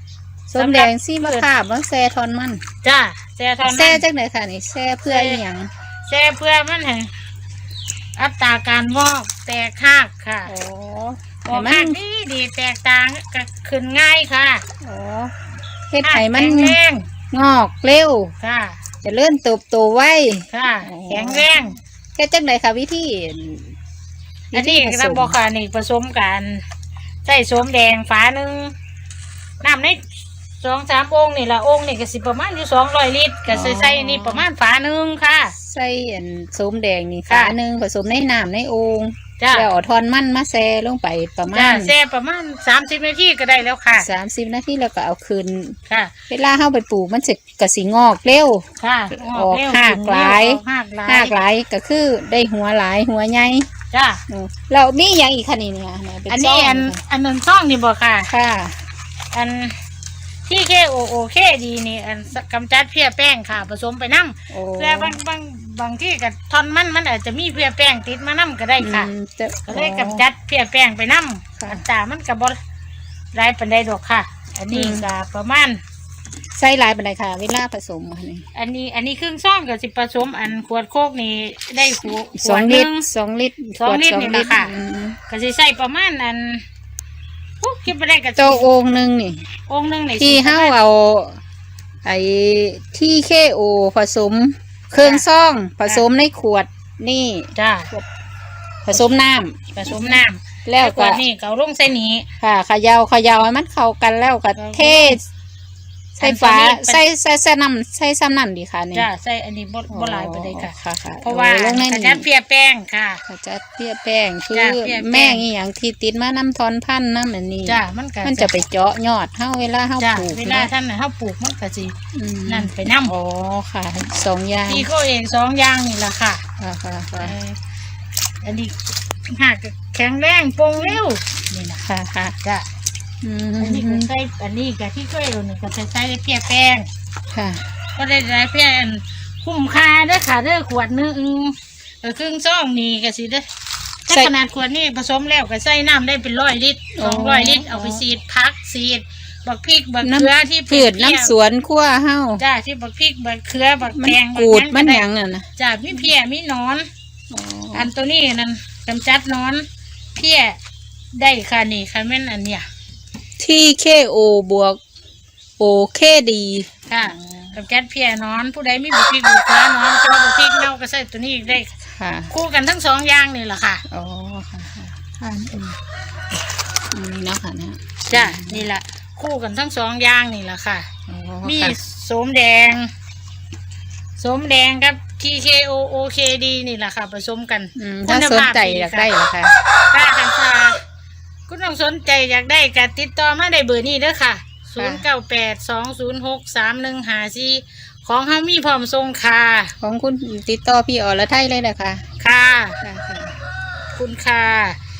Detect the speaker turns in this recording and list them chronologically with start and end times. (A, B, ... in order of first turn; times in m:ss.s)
0:00.5-0:02.6 A
0:00.6-0:01.5 B
0:02.8-0:04.0 B
0:03.6-0:05.7 A
0:05.1-0:05.4 B
0:06.1-0:07.1 B
0:08.2-0:10.5 B
0:10.4-0:12.0 A
0:11.4-0:14.6 B
0:14.8-0:15.3 A
0:15.9-0:16.8 A
0:16.0-0:17.1 B
0:17.3-0:18.3 A
0:18.4-0:18.8 B
0:19.0-0:21.6 A
0:20.5-0:21.8 B
0:22.2-0:23.7 A
0:24.5-0:25.4 A
0:24.5-0:26.6 B
0:27.2-0:28.7 B
0:29.6-0:30.0 B
0:30.6-0:35.5 B
0:33.5-0:34.4 A
0:35.6-0:41.9 A
0:37.3-0:37.5 B
0:39.4-0:39.7 B
0:41.5-0:44.1 B
0:43.9-0:45.8 A
0:46.3-0:53.7 A
0:48.8-0:51.3 B
0:53.9-0:54.2 B
0:54.3-0:57.0 A
0:56.3-0:58.3 B
0:58.3-0:58.8 A
0:59.3-0:59.8 B
1:00.4-1:09.1 B
1:04.5-1:05.2 A
1:08.8-1:10.2 A
1:09.7-1:12.6 B
1:13.3-1:15.8 B
1:14.7-1:15.0 A
1:16.5-1:18.5 A
1:18.5-1:23.1 B
1:22.3-1:25.2 A
1:23.8-1:24.7 B
1:25.3-1:26.6 B
1:27.6-1:28.7 B
1:28.4-1:29.4 A
1:29.7-1:30.8 B
1:30.2-1:31.4 A
1:32.0-1:38.1 A
1:35.0-1:35.3 B
1:37.5-1:37.9 B
1:38.8-1:41.2 A
1:38.9-1:39.2 B
1:39.7-1:42.3 B
1:42.4-1:45.2 A
1:44.6-1:45.2 B
1:46.2-1:49.1 A
1:46.2-1:47.0 B
1:48.9-1:53.2 B
1:49.9-1:52.2 A
1:53.3-2:00.7 A
1:54.5-1:55.4 B
1:57.6-1:58.5 B
2:00.0-2:02.0 B
2:02.1-2:04.9 A
2:02.5-2:03.1 B
2:04.7-2:06.4 B
2:06.6-2:07.4 A
2:07.2-2:07.6 B
2:08.4-2:11.8 B
2:11.8-2:12.4 A
2:13.2-2:14.1 A
2:13.6-2:16.9 B
2:17.3-2:17.6 A
2:18.0-2:23.4 B
2:24.1-2:31.3 B
2:26.9-2:28.0 A
2:30.0-2:32.4 A
2:32.4-2:35.0 B
2:33.9-2:36.0 A
2:35.6-2:36.9 B
2:37.3-2:37.9 A
2:37.7-2:39.6 B
2:40.2-2:40.6 B
2:41.1-2:42.7 B
2:43.4-2:44.8 A
2:45.6-2:47.5 A
2:46.9-2:51.7 B
2:51.9-2:52.3 A
2:52.3-2:53.8 B
2:53.9-2:55.7 A
2:56.9-2:58.6 A
2:58.1-3:00.9 B
3:01.1-3:01.8 A
3:01.4-3:02.9 B
3:04.2-3:09.1 B
3:07.8-3:09.5 A
3:09.9-3:10.8 B
3:11.5-3:19.7 B
3:14.8-3:15.0 A
3:19.8-3:22.0 A
3:22.2-3:22.8 B
3:22.8-3:23.3 A
3:23.9-3:24.8 B